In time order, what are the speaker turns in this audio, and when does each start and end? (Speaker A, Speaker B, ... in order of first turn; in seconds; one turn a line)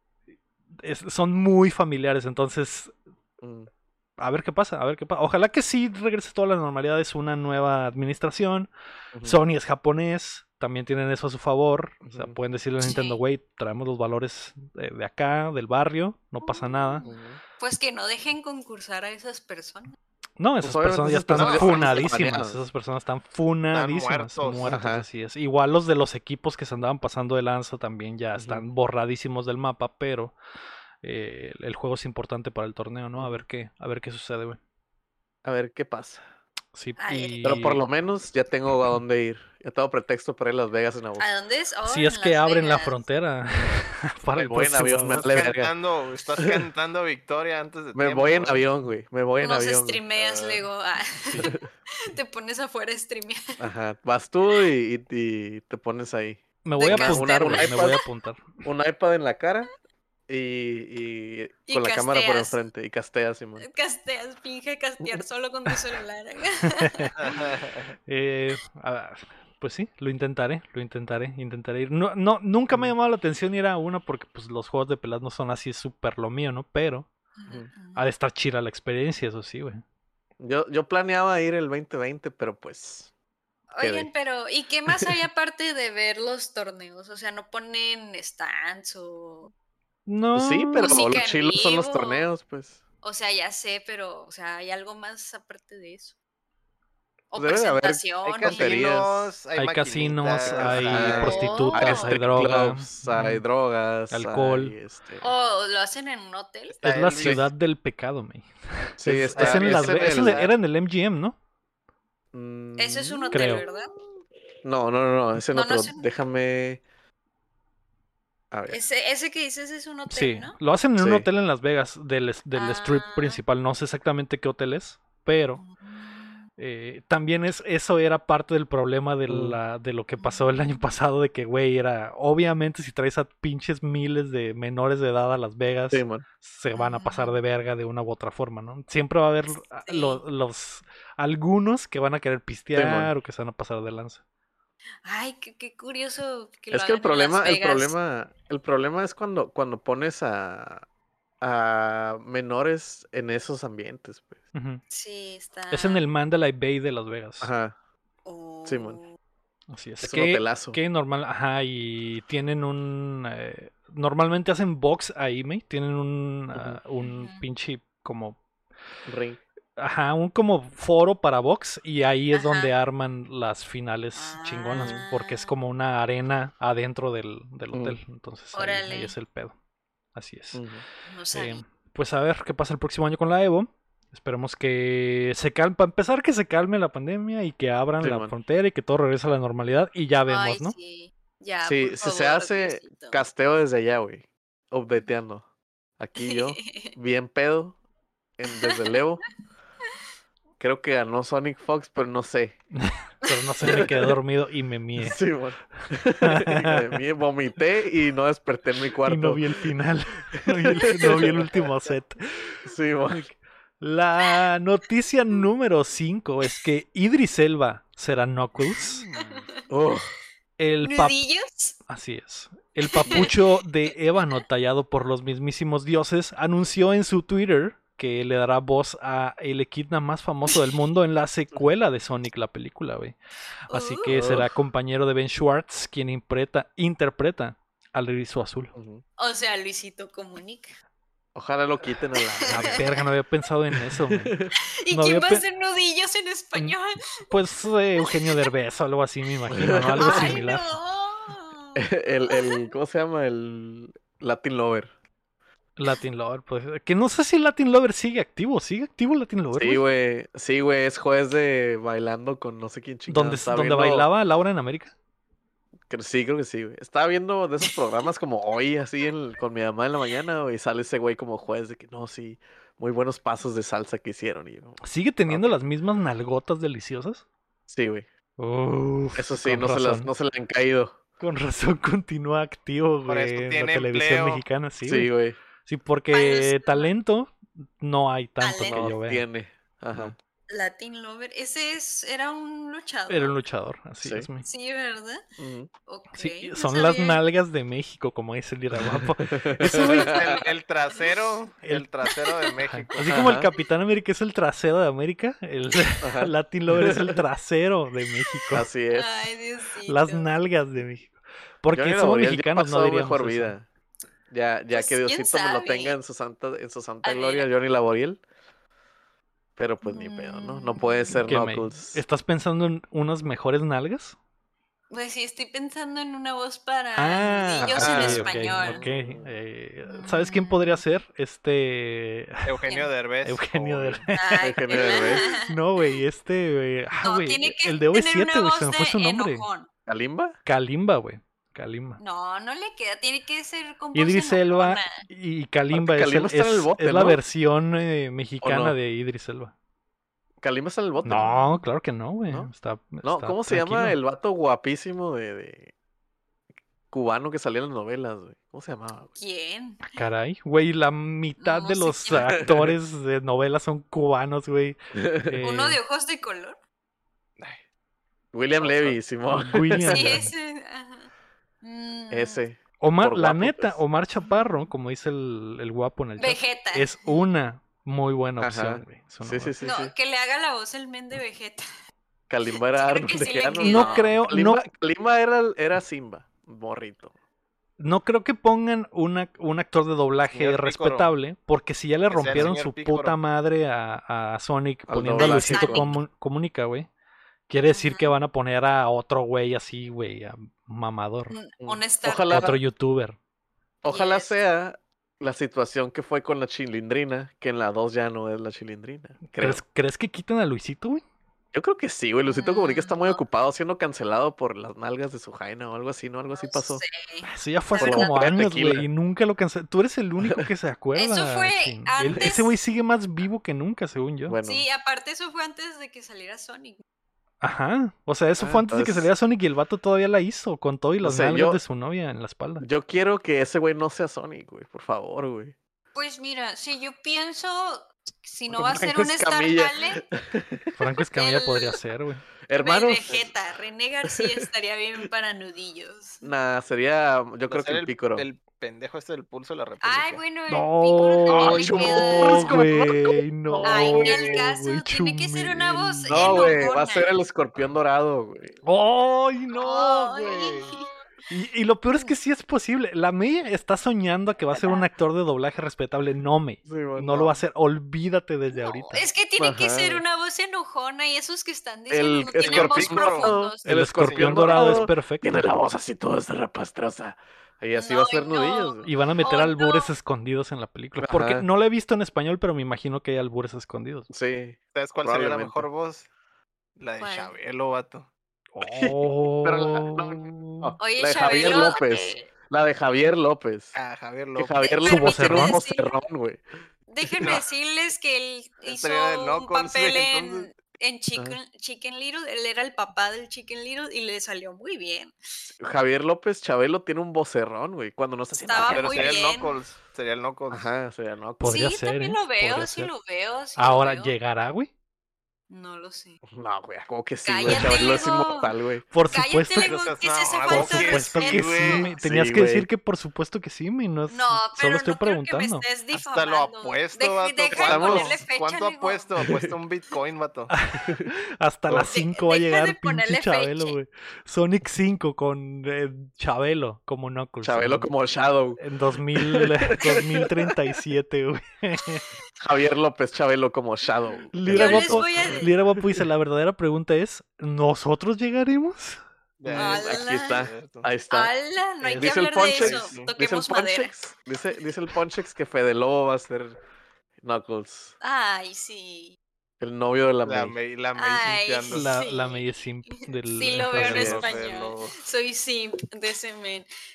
Speaker A: 0.8-2.9
Speaker B: 3.4-3.7
Speaker A: 4.2-8.7
Speaker B: 9.1-9.4
Speaker A: 9.2-17.1
Speaker B: 12.0-12.3
Speaker C: 12.8-13.2
Speaker C: 16.4-19.9
Speaker B: 17.0-17.4
Speaker A: 20.4-30.3
Speaker B: 20.6-22.6
Speaker D: 21.4-21.7
Speaker C: 21.6-21.9
Speaker D: 23.7-24.8
Speaker B: 24.6-25.0
Speaker B: 28.4-28.6
Speaker A: 31.0-34.6
Speaker B: 33.2-33.4
Speaker B: 35.4-36.2
Speaker A: 36.7-37.8
Speaker C: 37.0-37.6
Speaker B: 37.4-41.3
Speaker C: 41.2-43.0
Speaker A: 41.8-45.3
Speaker B: 44.4-45.7
Speaker D: 44.8-48.6
Speaker B: 47.9-50.0
Speaker C: 49.4-53.6
Speaker D: 50.1-50.6
Speaker B: 51.3-51.6
Speaker B: 53.6-58.0
Speaker A: 56.6-58.4
Speaker C: 56.8-58.0
Speaker B: 58.6-59.7
Speaker B: 60.3-63.6
Speaker C: 61.7-62.6
Speaker C: 63.6-67.3
Speaker A: 66.8-67.1
Speaker D: 67.2-67.9
Speaker A: 68.1-77.1
Speaker C: 77.3-78.1
Speaker A: 77.9-79.8
Speaker B: 80.4-83.1
Speaker C: 83.7-89.5
Speaker B: 83.8-84.1
Speaker A: 90.0-91.1
Speaker B: 90.3-92.8
Speaker C: 90.7-92.2
Speaker C: 93.0-96.1
Speaker C: 97.3-99.0
Speaker B: 97.3-99.3
Speaker D: 98.2-101.7
Speaker A: 99.5-103.4
Speaker B: 100.4-105.2
Speaker C: 101.0-102.2
Speaker A: 104.1-104.7
Speaker C: 105.2-106.8
Speaker D: 106.7-107.4
Speaker A: 106.8-111.3
Speaker B: 109.0-110.4
Speaker D: 109.3-110.5
Speaker B: 112.3-113.7
Speaker C: 112.8-113.9
Speaker A: 113.3-113.6
Speaker B: 114.6-116.8
Speaker C: 115.5-116.1
Speaker B: 118.5-118.8
Speaker C: 118.7-120.5
Speaker A: 120.1-125.6
Speaker B: 121.0-121.2
Speaker C: 122.5-123.4
Speaker C: 125.6-126.4
Speaker A: 126.6-144.2
Speaker B: 129.3-129.6
Speaker C: 130.2-130.4
Speaker B: 135.9-136.2
Speaker C: 136.7-137.4
Speaker C: 139.5-140.2
Speaker B: 142.7-143.1
Speaker C: 145.0-147.9
Speaker B: 146.7-150.8
Speaker B: 151.4-154.4
Speaker A: 154.5-154.8
Speaker C: 154.9-156.0
Speaker A: 155.7-157.5
Speaker B: 157.4-157.7
Speaker C: 158.2-159.1
Speaker B: 158.7-159.0
Speaker A: 159.7-168.4
Speaker B: 160.0-160.8
Speaker B: 166.5-166.8
Speaker C: 167.2-167.4
Speaker B: 169.1-169.4
Speaker A: 169.8-179.5
Speaker C: 172.3-172.7
Speaker C: 174.1-175.5
Speaker B: 174.8-175.0
Speaker C: 178.5-179.1
Speaker A: 180.1-180.6
Speaker B: 180.5-180.8
Speaker C: 181.1-181.6
Speaker A: 181.3-190.7
Speaker B: 188.0-188.3
Speaker C: 190.3-193.2
Speaker B: 191.6-195.4
Speaker B: 196.0-197.8
Speaker C: 196.2-196.9
Speaker B: 198.4-199.2
Speaker C: 198.4-198.9
Speaker B: 200.6-202.6
Speaker A: 202.7-205.2
Speaker B: 203.6-203.9
Speaker B: 205.0-209.6
Speaker A: 206.2-206.8
Speaker A: 209.0-212.7
Speaker B: 210.4-211.5
Speaker B: 212.6-213.3
Speaker A: 213.8-219.1
Speaker C: 218.8-219.6
Speaker B: 219.1-220.1
Speaker A: 220.6-221.2
Speaker C: 220.8-221.8
Speaker A: 221.9-233.1
Speaker C: 222.8-223.9
Speaker C: 233.7-234.1
Speaker A: 233.7-238.7
Speaker B: 234.1-234.5
Speaker B: 238.7-239.0
Speaker C: 239.2-240.8
Speaker B: 241.3-242.9
Speaker C: 242.4-243.0
Speaker A: 242.5-244.3
Speaker B: 244.1-244.5
Speaker C: 244.8-247.0
Speaker A: 244.9-245.4
Speaker A: 247.3-250.7
Speaker C: 248.0-248.5
Speaker B: 249.5-250.4
Speaker C: 249.7-252.7
Speaker B: 251.8-254.9
Speaker A: 255.8-259.8
Speaker B: 259.6-264.1
Speaker A: 263.1-264.9
Speaker B: 265.9-275.6
Speaker A: 274.8-277.2
Speaker B: 277.7-278.1
Speaker A: 278.4-280.1
Speaker B: 279.1-281.0
Speaker A: 281.2-285.1
Speaker D: 283.1-284.4
Speaker B: 284.8-285.4
Speaker A: 285.6-289.2
Speaker C: 286.1-286.9
Speaker C: 288.4-288.9
Speaker B: 288.6-290.1
Speaker C: 290.5-293.4
Speaker A: 293.1-294.4
Speaker C: 294.4-295.2
Speaker B: 295.4-295.7
Speaker C: 295.9-297.2
Speaker A: 296.2-300.4
Speaker B: 298.7-300.0
Speaker D: 299.7-303.3
Speaker A: 302.7-308.6
Speaker B: 303.1-303.5
Speaker B: 306.0-307.2
Speaker C: 308.3-310.3
Speaker B: 308.5-309.3
Speaker A: 309.9-313.5
Speaker B: 311.7-313.7
Speaker B: 314.3-318.2
Speaker C: 314.7-315.9
Speaker C: 317.0-317.5
Speaker B: 319.6-322.0
Speaker C: 319.8-321.1
Speaker A: 321.1-324.1
Speaker C: 324.9-328.8
Speaker A: 327.0-332.6
Speaker B: 327.7-329.3
Speaker D: 327.8-328.2
Speaker C: 329.9-330.8
Speaker D: 332.4-334.0
Speaker A: 333.2-339.4
Speaker C: 334.1-336.0
Speaker B: 334.4-335.2
Speaker C: 337.0-339.7
Speaker B: 339.9-340.4
Speaker A: 340.4-342.0
Speaker C: 342.0-345.0
Speaker A: 343.9-349.5
Speaker B: 345.7-347.2
Speaker B: 348.4-348.8
Speaker B: 350.4-351.4
Speaker A: 351.0-353.9
Speaker B: 353.0-355.7
Speaker B: 356.9-359.1
Speaker C: 359.1-360.0
Speaker A: 359.9-365.8
Speaker C: 361.4-362.4
Speaker B: 362.1-362.7
Speaker B: 364.9-365.4
Speaker C: 365.4-366.6
Speaker B: 368.3-370.0
Speaker D: 368.5-369.0
Speaker A: 369.3-370.3
Speaker C: 369.9-371.1
Speaker C: 371.6-372.4
Speaker B: 372.1-373.8
Speaker A: 372.8-379.5
Speaker C: 376.2-377.2
Speaker B: 378.4-379.9
Speaker C: 379.6-381.6
Speaker B: 382.3-387.1
Speaker C: 382.5-384.2
Speaker A: 383.6-384.6
Speaker A: 387.8-396.9
Speaker D: 390.3-391.1
Speaker D: 392.1-393.1
Speaker B: 392.3-392.5
Speaker B: 394.9-395.9
Speaker C: 395.1-396.0
Speaker A: 397.5-401.3
Speaker C: 397.7-398.1
Speaker C: 401.3-402.5
Speaker B: 401.6-402.6
Speaker A: 402.3-403.1
Speaker B: 403.8-409.6
Speaker C: 403.9-404.3
Speaker A: 409.3-411.0
Speaker B: 411.5-416.8
Speaker C: 412.2-413.2
Speaker C: 416.3-418.3
Speaker A: 417.2-424.4
Speaker B: 417.8-418.9
Speaker C: 420.9-422.5
Speaker B: 422.0-422.3
Speaker B: 424.3-424.6
Speaker C: 424.4-426.8
Speaker A: 427.4-432.6
Speaker B: 428.4-429.1
Speaker B: 431.0-431.6
Speaker B: 432.6-435.5
Speaker C: 435.9-440.1
Speaker B: 438.5-440.7
Speaker A: 440.8-442.2
Speaker C: 441.1-441.8
Speaker B: 442.5-443.3
Speaker C: 442.6-446.2
Speaker B: 446.2-448.3
Speaker D: 447.5-450.2
Speaker C: 449.8-452.6
Speaker A: 450.5-456.7
Speaker B: 451.3-454.4
Speaker C: 453.6-457.1
Speaker B: 456.1-458.6
Speaker A: 458.6-460.8
Speaker C: 459.6-460.9
Speaker B: 460.2-460.8
Speaker A: 461.3-469.1
Speaker C: 464.5-464.8
Speaker B: 466.6-467.4
Speaker C: 468.5-473.9
Speaker B: 469.4-470.0
Speaker B: 471.9-478.9
Speaker D: 472.4-473.4
Speaker A: 473.6-475.4
Speaker D: 474.0-474.8
Speaker C: 477.7-479.9
Speaker A: 478.8-484.1
Speaker B: 481.0-481.4
Speaker B: 484.1-485.7
Speaker D: 484.7-486.1
Speaker D: 486.8-488.1
Speaker C: 487.0-487.3
Speaker A: 488.5-490.8
Speaker B: 488.6-493.7
Speaker C: 490.8-492.3
Speaker D: 493.7-494.6
Speaker B: 494.4-496.4
Speaker C: 494.6-495.9
Speaker A: 494.8-495.6
Speaker C: 496.9-505.1
Speaker D: 498.6-500.5
Speaker B: 505.6-509.2
Speaker C: 508.3-509.6
Speaker D: 508.6-510.6
Speaker B: 510.5-511.7
Speaker A: 511.4-512.9
Speaker C: 511.4-514.1
Speaker A: 513.6-514.7
Speaker C: 515.5-516.2
Speaker B: 516.3-518.9
Speaker C: 517.2-518.5
Speaker A: 517.4-517.9
Speaker A: 518.9-520.0
Speaker C: 519.1-521.9
Speaker D: 519.6-522.0
Speaker A: 520.5-525.6
Speaker B: 522.0-522.7
Speaker C: 524.1-529.2
Speaker D: 525.9-530.5
Speaker B: 527.5-528.2
Speaker B: 529.2-529.5
Speaker A: 530.6-537.9
Speaker B: 530.8-531.1
Speaker C: 531.8-533.7
Speaker B: 537.4-538.6
Speaker A: 538.6-542.0
Speaker B: 539.1-540.3
Speaker B: 542.4-545.1
Speaker A: 544.3-549.0
Speaker C: 544.5-545.5
Speaker D: 549.4-550.9
Speaker B: 549.5-556.6
Speaker C: 549.5-550.4
Speaker C: 551.1-553.9
Speaker A: 551.9-552.4
Speaker D: 552.5-553.1
Speaker B: 557.2-557.9
Speaker C: 558.0-559.2
Speaker B: 559.6-560.5
Speaker D: 560.2-561.9
Speaker C: 560.9-562.5
Speaker A: 561.7-564.3
Speaker C: 563.0-566.7
Speaker D: 563.7-565.0
Speaker B: 563.8-564.2